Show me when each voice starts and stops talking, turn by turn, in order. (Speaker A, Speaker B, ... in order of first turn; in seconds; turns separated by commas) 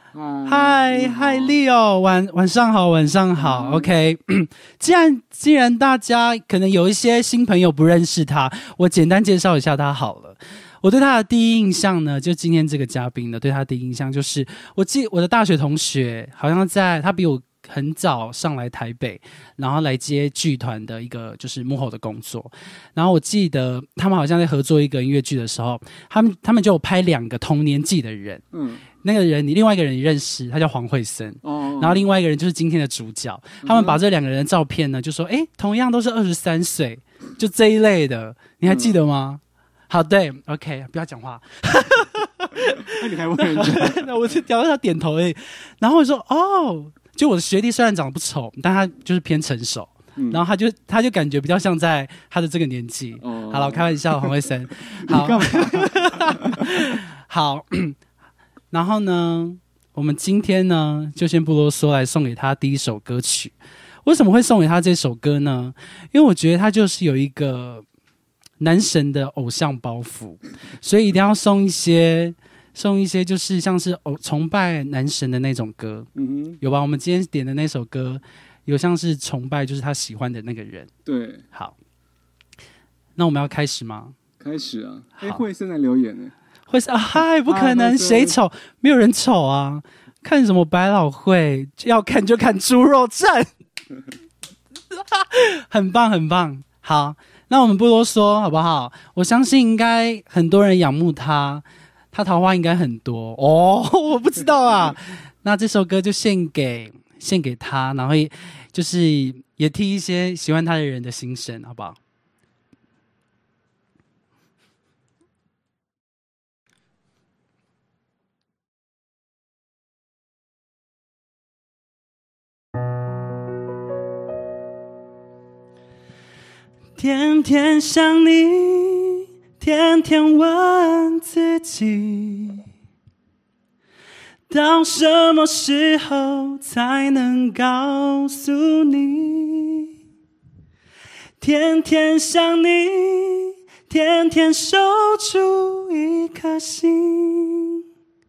Speaker A: 0.1-1.6, Speaker B: 0.5-28.4, Speaker A: 3.4-3.9, Speaker A: 28.5-28.9, Speaker B: 29.0-58.0, Speaker A: 31.4-32.0, Speaker A: 33.6-34.0, Speaker A: 38.7-39.0, Speaker A: 42.8-44.1, Speaker A: 50.2-50.4, Speaker A: 53.2-54.4, Speaker A: 54.9-56.7, Speaker B: 58.7-63.5, Speaker B: 64.0-67.8, Speaker B: 68.6-76.1, Speaker A: 76.2-76.6, Speaker B: 76.6-80.9, Speaker A: 81.1-81.5, Speaker B: 83.2-84.2, Speaker A: 84.4-86.3, Speaker B: 86.7-93.5, Speaker A: 87.5-88.4, Speaker B: 94.9-112.0, Speaker B: 127.0-132.6, Speaker B: 134.5-139.9, Speaker B: 141.4-147.8